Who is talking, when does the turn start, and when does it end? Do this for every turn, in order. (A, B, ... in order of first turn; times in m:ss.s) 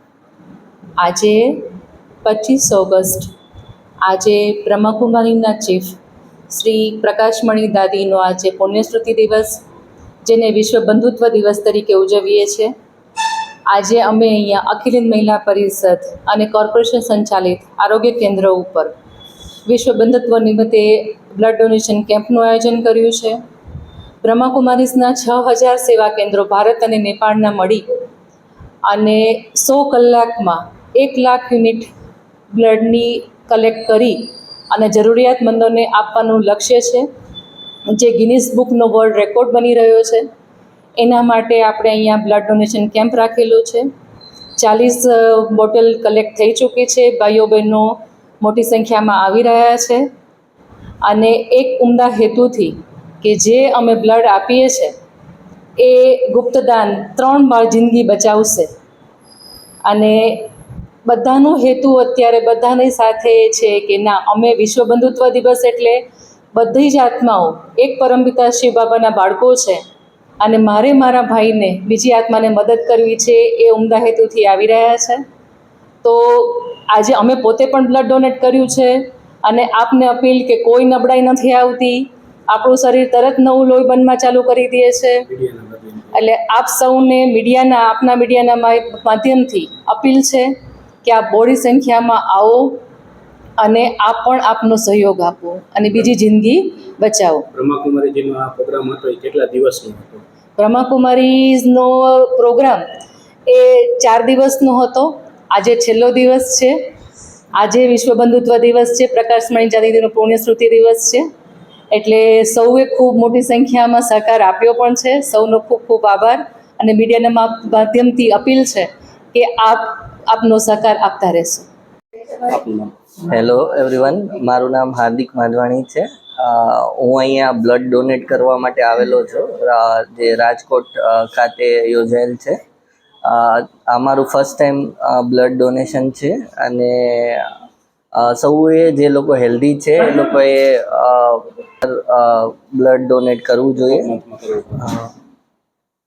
0:01.0-0:01.6 A
0:02.2-0:03.3 A
0:04.0-0:06.0 A
0:06.5-0:09.6 A
0:10.2-0:12.7 A
0:13.7-0:18.9 A
0:19.7-0:23.4 A
0:24.2-0:27.8 A
0:28.9-0:31.9 A
0:32.5-0:37.1 A
0:37.9-0:40.3 A
0:41.0-0:43.9 A
0:44.6-0:50.0 A
0:51.0-0:54.9 A
0:55.8-0:58.7 A
0:59.9-1:00.5 A
1:01.1-1:06.0 A
1:06.5-1:09.8 A
1:10.4-1:15.2 A
1:16.0-1:25.2 A
1:25.3-1:26.2 B
1:26.1-1:30.5 A
1:31.0-1:32.8 A
1:33.6-1:37.5 A
1:37.5-1:40.2 B
1:40.6-1:42.8 A
1:43.5-1:46.8 A
1:47.6-1:51.2 A
1:51.9-2:01.6 A
2:02.5-2:02.9 B
2:03.3-2:12.6 C
2:13.2-2:17.5 C
2:18.2-2:24.1 C
2:23.9-2:25.0 B